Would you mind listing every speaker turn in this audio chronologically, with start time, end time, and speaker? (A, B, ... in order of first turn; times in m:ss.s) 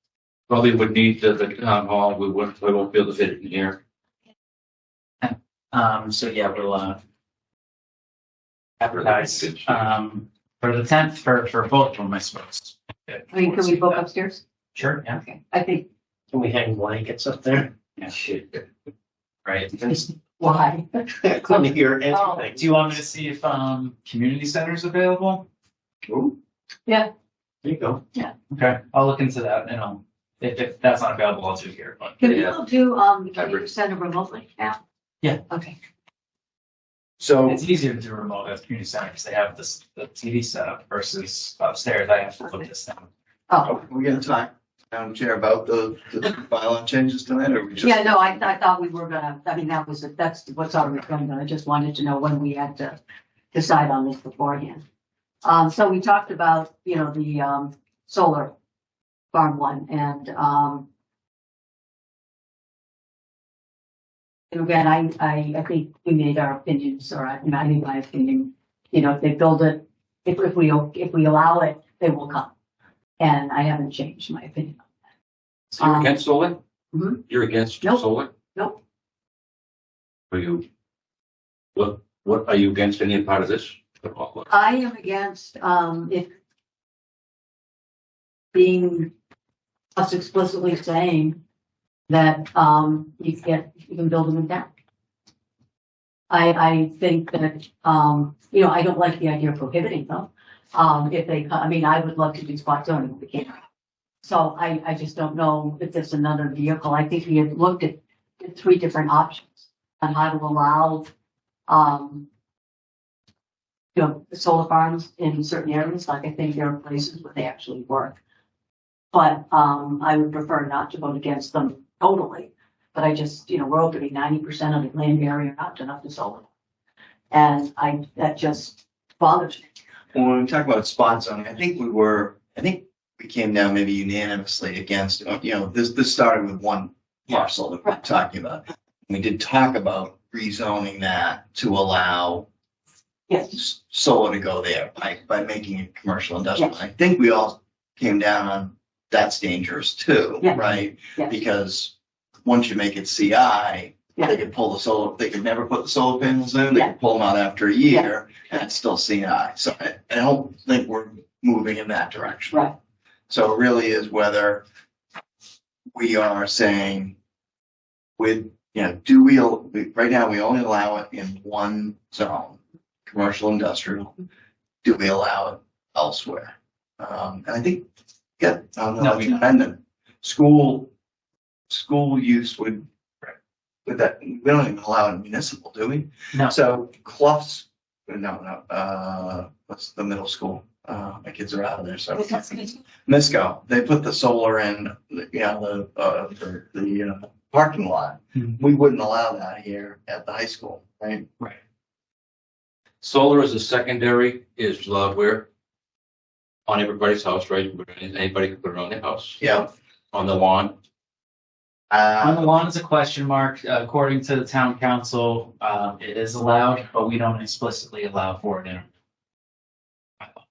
0:00.5-0:03.8 A
0:05.2-0:07.0 B
0:08.8-0:14.0 B
0:08.9-0:09.8 A
0:13.3-0:14.4 C
0:14.8-0:15.2 B
0:15.1-0:15.9 C
0:16.3-0:17.7 D
0:18.0-0:18.3 B
0:19.4-0:19.8 B
0:19.8-0:22.4 C
0:21.1-0:22.8 D
0:22.6-0:25.5 B
0:27.6-0:28.0 D
0:28.5-0:32.4 B
0:32.2-0:34.8 C
0:32.2-0:32.5 A
0:33.4-0:33.6 A
0:35.5-0:35.8 C
0:37.2-0:37.6 E
0:37.4-0:43.1 B
0:43.5-0:43.8 C
0:43.6-0:48.4 E
0:47.8-0:53.0 C
0:53.5-0:54.8 C
0:55.4-0:58.5 C
0:59.3-1:00.9 C
1:04.5-1:12.5 C
1:13.2-1:14.8 C
1:15.7-1:16.6 A
1:15.8-1:16.2 C
1:16.9-1:17.2 C
1:17.3-1:18.3 A
1:20.3-1:20.6 A
1:21.8-1:24.5 A
1:24.5-1:26.3 C
1:28.5-1:29.1 C
1:30.0-1:31.4 C
1:32.1-1:34.7 C
1:36.3-1:43.6 C
1:44.2-1:51.1 C
1:51.7-1:52.3 C
1:54.0-1:58.2 C
1:59.1-2:06.5 C
2:07.3-2:09.7 C
2:10.1-2:22.5 E
2:23.3-2:23.6 C
2:23.5-2:31.9 E
2:30.4-2:31.4 C
2:32.4-2:42.7 E
2:43.3-2:44.6 E
2:46.0-2:47.2 E
2:48.2-2:54.2 E
2:54.8-2:57.8 E
2:58.4-3:00.9 E
2:59.0-2:59.4 B
3:01.7-3:02.9 E
3:03.8-3:21.3 E
3:12.2-3:12.8 C
3:18.4-3:18.6 B
3:23.0-3:25.5 A
3:26.7-3:29.4 A
3:29.4-3:29.7 E
3:30.1-3:30.7 A
3:31.9-3:32.5 E
3:32.2-3:38.9 B